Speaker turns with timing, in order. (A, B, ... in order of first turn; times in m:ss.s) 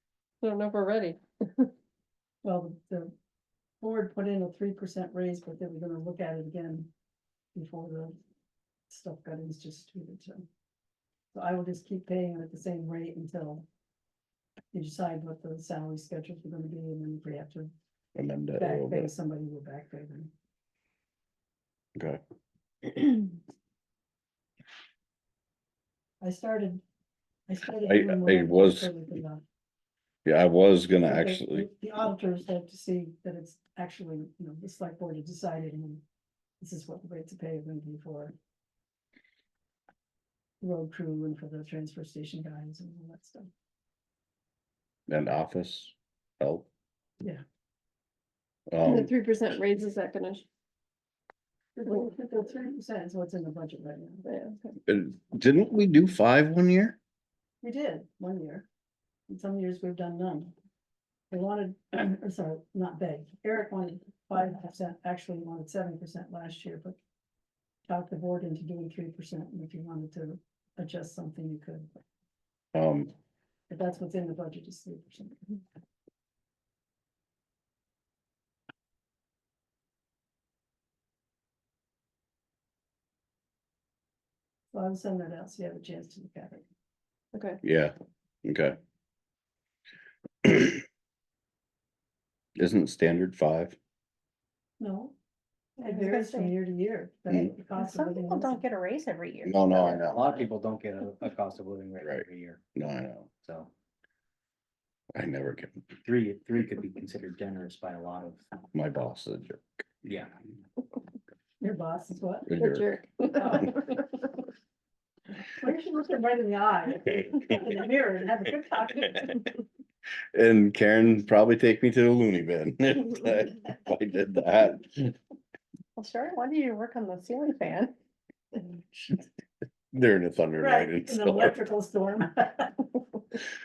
0:00.4-0:01.7 A
0:02.4-0:03.1 B
0:03.8-0:06.9 B
0:07.6-0:08.2 B
0:08.9-0:10.5 B
0:11.3-0:13.6 B
0:14.7-0:17.7 B
0:18.2-0:19.1 C
0:18.6-0:20.3 B
0:22.9-0:23.2 C
0:26.2-0:26.8 B
0:27.5-0:29.4 B
0:27.8-0:28.9 C
0:30.3-0:31.7 C
0:31.0-0:36.0 B
0:36.6-0:38.3 B
0:40.6-0:43.5 B
0:45.1-0:46.7 C
0:48.7-0:49.1 C
0:48.8-0:50.5 A
0:51.8-0:54.2 B
0:54.2-0:54.7 A
0:54.9-0:57.0 C
0:57.6-0:58.7 B
0:59.3-1:00.5 B
1:01.3-1:07.0 B
1:07.9-1:11.9 B
1:12.7-1:13.1 C
1:13.7-1:15.6 B
1:24.7-1:26.6 B
1:27.3-1:27.6 A
1:27.6-1:28.8 C
1:30.4-1:30.8 C
1:32.6-1:33.8 C
1:34.8-1:35.2 B
1:35.8-1:36.5 A
1:35.8-1:38.6 B
1:37.8-1:39.6 D
1:39.4-1:40.3 C
1:39.7-1:42.6 E
1:42.0-1:43.3 C
1:43.4-1:43.7 E
1:45.2-1:45.8 C
1:46.0-1:48.5 E
1:48.7-1:49.6 C
1:50.0-1:50.3 E
1:51.6-1:52.5 B
1:52.5-1:52.9 C
1:52.6-1:54.0 A
1:53.4-1:53.8 B
1:55.5-1:59.4 B
2:00.3-2:05.1 C
2:06.0-2:07.9 D
2:06.0-2:07.7 A
2:09.9-2:11.6 C
2:10.6-2:12.9 B